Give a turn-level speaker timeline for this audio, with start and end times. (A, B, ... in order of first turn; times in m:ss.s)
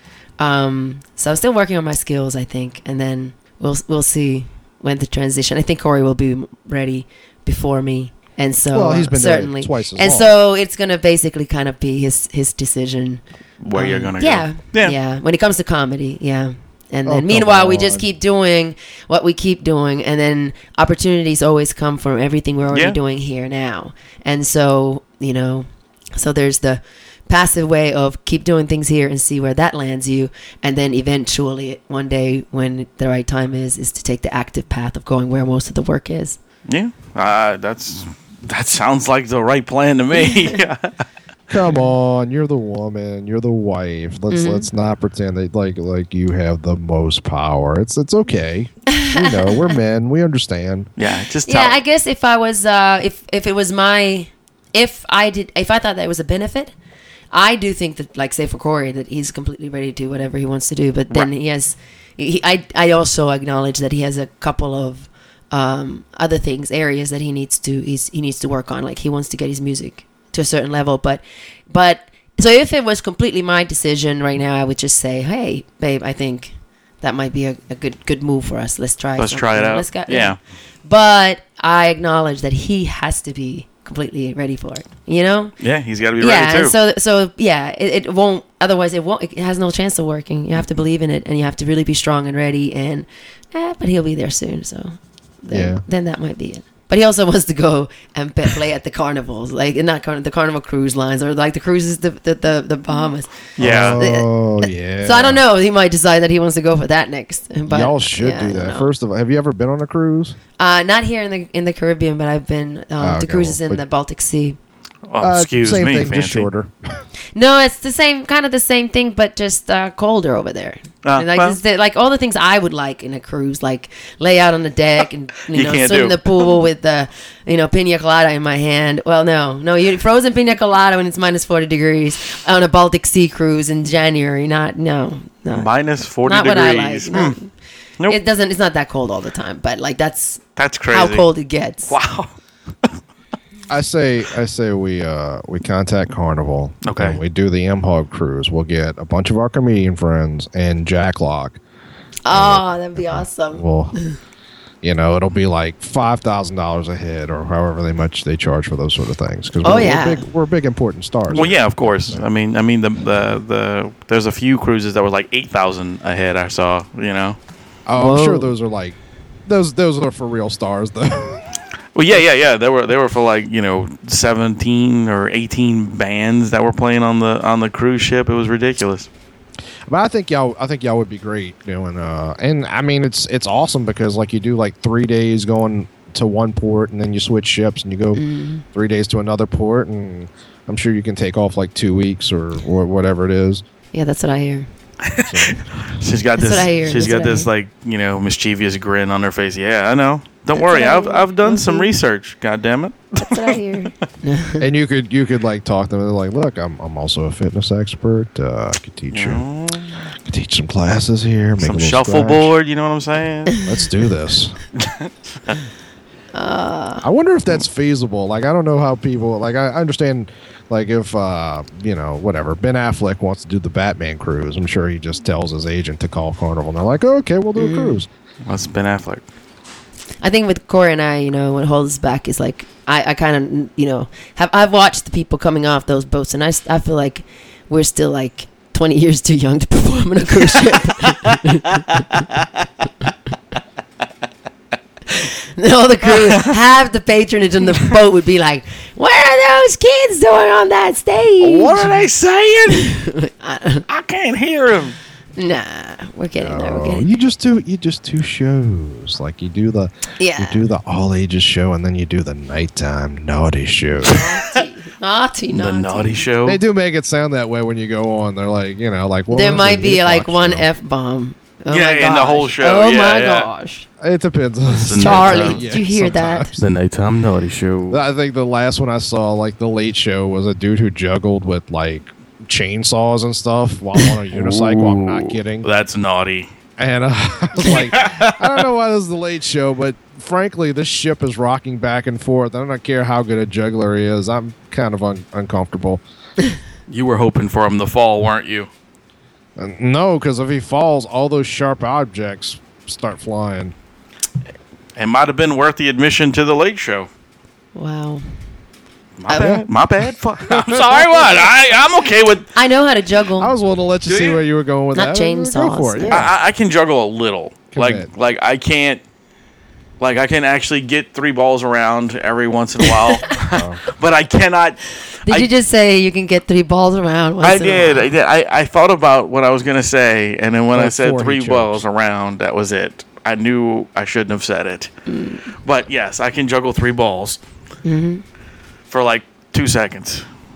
0:00.4-0:36.4 A
0:08.7-0:10.3 B
0:13.6-0:15.0 C
0:17.0-0:18.0 B
0:22.7-0:23.0 C
0:36.7-0:40.9 C
0:41.5-0:50.9 B
0:44.3-0:44.7 A
0:48.9-0:49.7 A
0:51.0-0:51.8 C
0:51.4-0:56.7 A
0:57.3-1:25.5 A
1:19.2-1:20.4 C
1:25.6-1:26.7 C
1:26.2-1:48.9 A
1:35.5-1:35.8 B
1:43.6-1:44.0 C
1:43.6-1:45.4 B
1:47.7-1:50.4 B
1:50.6-1:54.6 A
1:53.0-1:53.8 B
1:55.1-1:56.5 C
1:55.2-1:56.7 B
1:57.3-2:15.7 A
2:01.0-2:01.6 C
2:05.5-2:06.2 C
2:15.5-2:17.4 C
2:16.2-2:17.5 A
2:18.0-2:21.9 A
2:20.6-2:21.2 C
2:21.9-2:22.3 C
2:23.7-2:31.6 B
2:26.8-2:27.2 C
2:32.2-2:34.2 A
2:32.3-2:33.9 B
2:34.8-2:42.2 B
2:39.6-2:40.2 A
2:41.3-2:47.4 C
2:47.9-2:51.4 B
2:48.0-2:48.5 A
2:51.9-2:59.1 C
2:59.9-3:08.2 B
3:08.1-3:08.6 A
3:08.7-3:13.6 B
3:13.9-3:14.7 A
3:15.0-3:23.6 C
3:15.2-3:15.6 B
3:16.4-3:17.5 A
3:20.5-3:21.9 A
3:23.2-3:24.6 A
3:24.6-3:29.4 B
3:29.1-3:30.0 C
3:30.1-3:32.5 B
3:31.6-3:33.6 C
3:33.6-3:34.6 B
3:34.8-3:35.6 C
3:36.3-3:37.0 A
3:37.0-3:48.1 B
3:47.6-3:48.0 A
3:48.4-3:49.2 C
3:50.2-4:02.2 A
4:05.1-4:11.8 A
4:11.4-4:12.9 C
4:12.7-4:13.8 A
4:13.9-4:15.0 C
4:15.4-4:17.1 A
4:16.4-4:24.2 B
4:20.2-4:20.6 A
4:24.0-4:26.3 A
4:25.5-4:26.6 C
4:26.4-4:30.6 B
4:29.3-4:33.9 A
4:31.7-4:33.5 C
4:34.0-4:36.5 B
4:34.7-4:35.6 C
4:35.0-4:36.6 A
4:36.6-4:38.0 C
4:37.9-4:45.7 B
4:44.3-4:46.5 C
4:46.8-4:56.0 B
4:47.6-4:48.5 C
4:56.9-4:58.7 C
4:59.6-5:03.7 B
5:05.0-5:07.1 C
5:07.7-5:08.2 A
5:09.2-5:12.5 C
5:09.3-5:09.7 B
5:10.4-5:11.5 B
5:12.5-5:13.5 A
5:13.4-5:16.3 B
5:14.0-5:14.4 C
5:14.9-5:16.2 A
5:16.1-5:19.0 C
5:17.7-5:18.1 B
5:20.0-5:25.5 C
5:22.8-5:23.2 A
5:23.5-5:23.8 B
5:25.2-5:28.1 A
5:27.4-5:34.9 C
5:30.7-5:31.8 B
5:35.1-5:35.4 A
5:35.6-5:37.4 C
5:37.8-5:38.2 A
5:38.9-5:40.2 C